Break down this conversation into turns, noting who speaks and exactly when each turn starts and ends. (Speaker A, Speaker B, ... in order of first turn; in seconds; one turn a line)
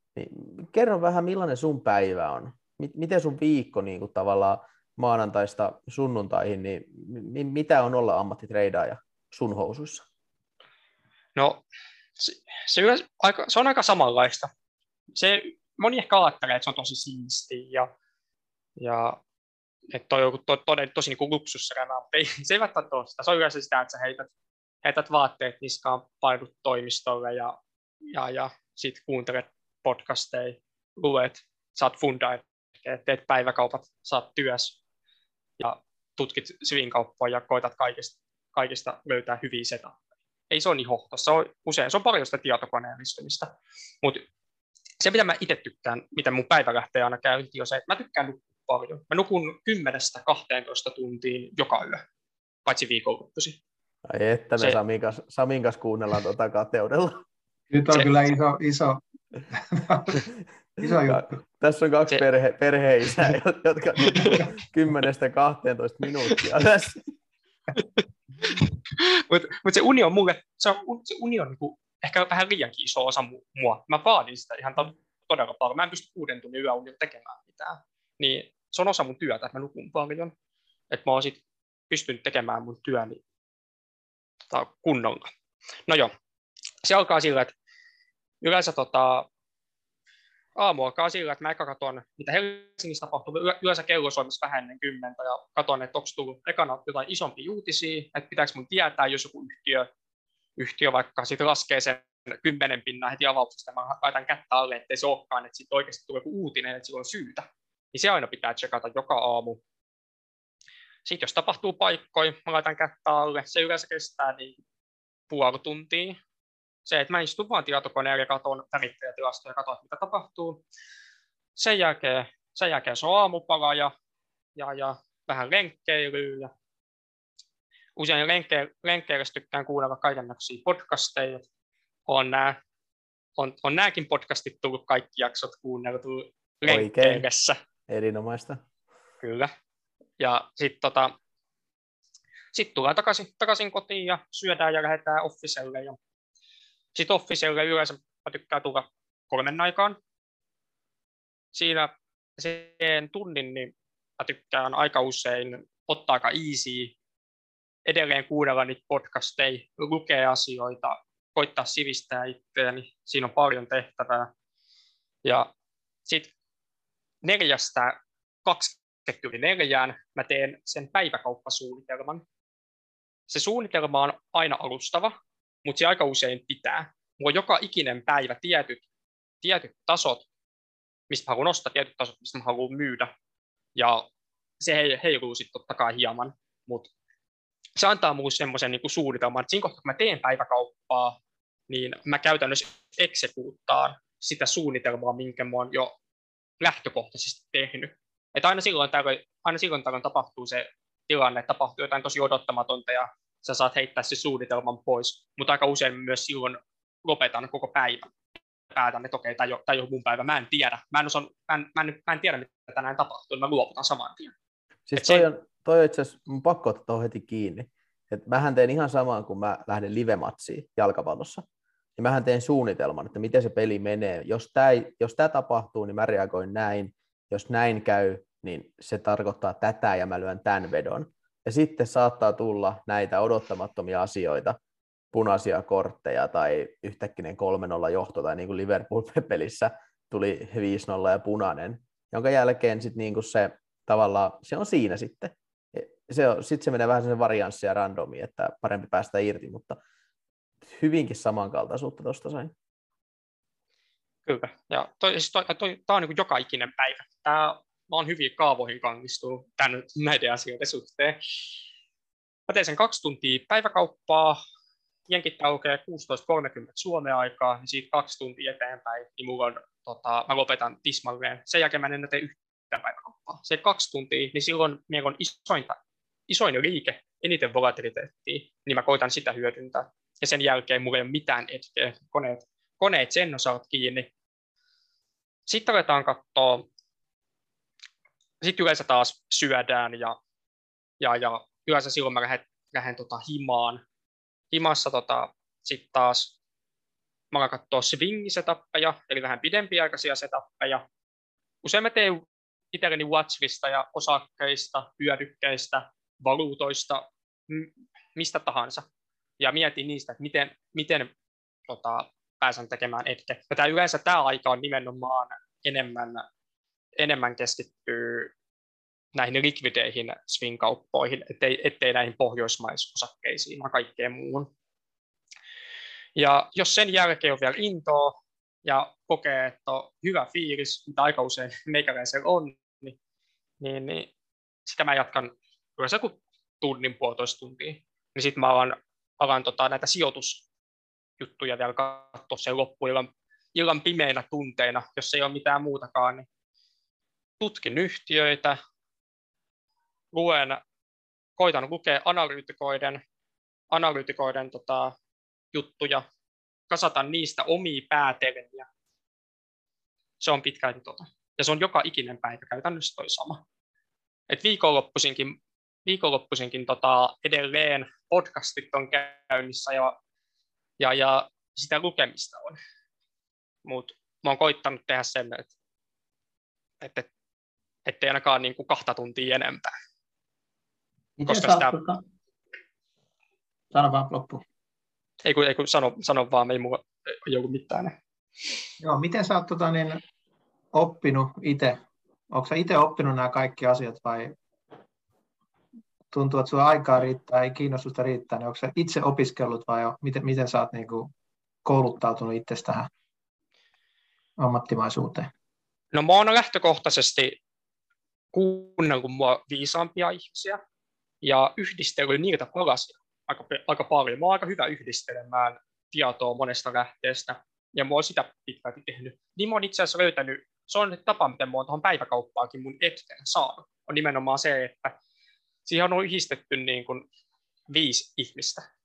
Speaker A: 0.1-10.0
Speaker B: 11.3-11.6
Speaker B: 12.2-14.5
Speaker B: 15.1-17.9
Speaker B: 18.8-19.2
Speaker B: 19.9-24.3
Speaker B: 24.8-27.5
Speaker B: 28.1-34.8
Speaker B: 35.6-40.0
Speaker B: 40.5-44.2
Speaker B: 45.0-52.0
Speaker B: 52.6-53.6
Speaker A: 54.0-57.2
Speaker C: 57.7-60.2
Speaker C: 60.8-61.4
Speaker A: 60.8-67.1
Speaker B: 64.1-64.4
Speaker B: 68.4-80.3
Speaker B: 80.9-81.4
Speaker B: 81.9-83.2
Speaker B: 84.5-85.3
Speaker B: 85.9-86.1
Speaker B: 86.8-87.5
Speaker B: 88.4-89.3
Speaker B: 90.5-99.9
Speaker B: 100.6-109.6
Speaker B: 111.0-114.6
Speaker B: 115.3-116.2
Speaker B: 116.8-120.6
Speaker B: 121.6-123.9
Speaker B: 124.5-126.5
Speaker B: 128.0-131.4
Speaker B: 132.1-132.6
Speaker B: 133.4-137.6
Speaker A: 136.7-137.2
Speaker A: 137.9-138.6
Speaker B: 139.2-139.5
Speaker B: 140.2-141.1
Speaker B: 142.5-146.0
Speaker B: 146.9-150.0
Speaker B: 151.5-156.9
Speaker B: 157.8-164.3
Speaker B: 165.2-165.5
Speaker B: 166.1-166.3
Speaker B: 167.2-172.2
Speaker B: 173.3-178.8
Speaker B: 179.4-180.2
Speaker B: 181.1-183.1
Speaker B: 183.7-184.1
Speaker B: 184.6-186.9
Speaker B: 187.8-191.2
Speaker B: 191.7-195.9
Speaker B: 196.6-208.1
Speaker B: 208.7-214.3
Speaker A: 214.9-221.4
Speaker B: 215.0-215.2
Speaker A: 222.0-234.6
Speaker A: 235.1-249.8
Speaker A: 250.6-252.5
Speaker B: 254.2-261.2
Speaker B: 262.5-264.4
Speaker B: 265.1-284.1
Speaker B: 285.5-286.6
Speaker B: 288.4-290.2
Speaker B: 291.0-293.8
Speaker B: 294.5-296.3
Speaker B: 297.3-300.8
Speaker B: 301.6-308.8
Speaker B: 309.4-311.1
Speaker B: 311.7-316.2
Speaker B: 317.0-318.3
Speaker B: 319.1-324.5
Speaker B: 326.1-332.9
Speaker B: 333.6-334.1
Speaker B: 334.6-340.4
Speaker B: 341.2-346.3
Speaker B: 347.4-348.6
Speaker B: 350.1-350.6
Speaker B: 351.4-353.0
Speaker B: 353.7-354.9
Speaker B: 355.5-356.0
Speaker B: 356.7-358.7
Speaker B: 360.2-363.4
Speaker B: 364.3-369.9
Speaker B: 370.8-372.6
Speaker B: 373.6-375.5
Speaker B: 376.8-377.1
Speaker B: 377.9-379.7
Speaker C: 381.2-382.0
Speaker B: 381.3-381.8
Speaker C: 383.7-384.4
Speaker B: 385.2-387.9
Speaker C: 388.8-390.0
Speaker C: 390.7-391.8
Speaker C: 392.3-394.3
Speaker C: 396.1-401.1
Speaker C: 401.6-402.9
Speaker C: 404.4-405.3
Speaker B: 405.9-407.4
Speaker B: 408.3-410.6
Speaker B: 411.2-424.9
Speaker B: 425.6-427.1
Speaker B: 427.7-428.6